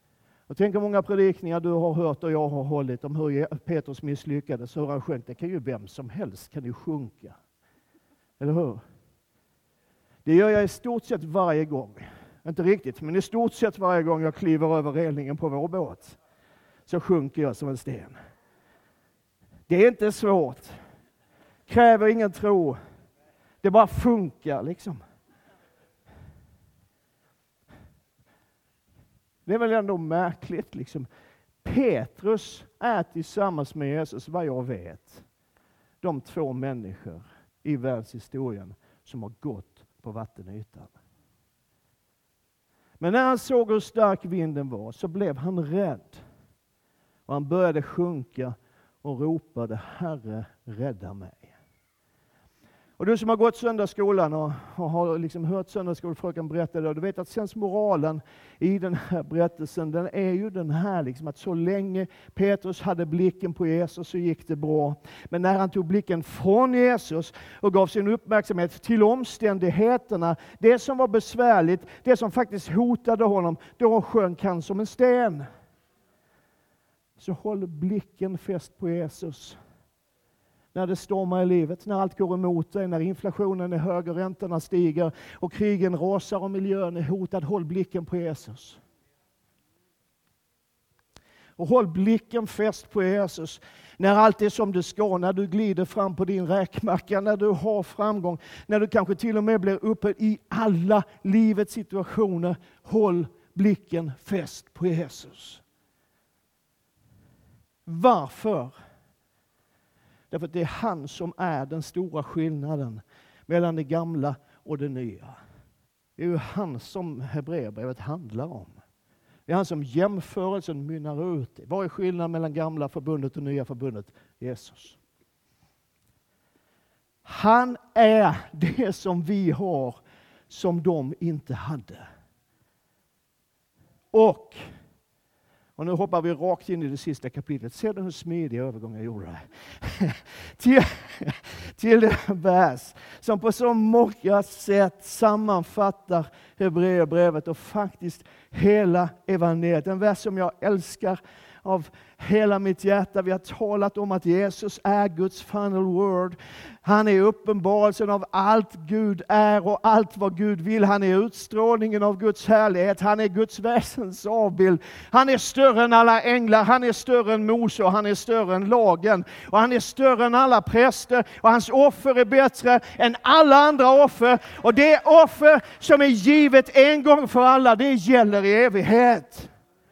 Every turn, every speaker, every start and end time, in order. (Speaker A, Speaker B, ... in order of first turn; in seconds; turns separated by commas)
Speaker A: 0.5-7.4, Speaker A: 8.4-8.8, Speaker A: 10.2-16.2, Speaker A: 16.9-18.1, Speaker A: 19.7-20.8, Speaker A: 21.7-22.8, Speaker A: 23.6-25.0, Speaker A: 29.4-31.1, Speaker A: 31.6-35.2, Speaker A: 36.0-40.9, Speaker A: 43.0-46.2, Speaker A: 47.3-51.5, Speaker A: 53.0-75.5, Speaker A: 77.2-79.6, Speaker A: 80.7-88.8, Speaker A: 91.6-105.6, Speaker A: 107.8-108.7, Speaker A: 110.3-115.4, Speaker A: 116.2-118.8, Speaker A: 119.5-125.0, Speaker A: 127.2-132.0, Speaker A: 134.1-134.6, Speaker A: 135.8-179.5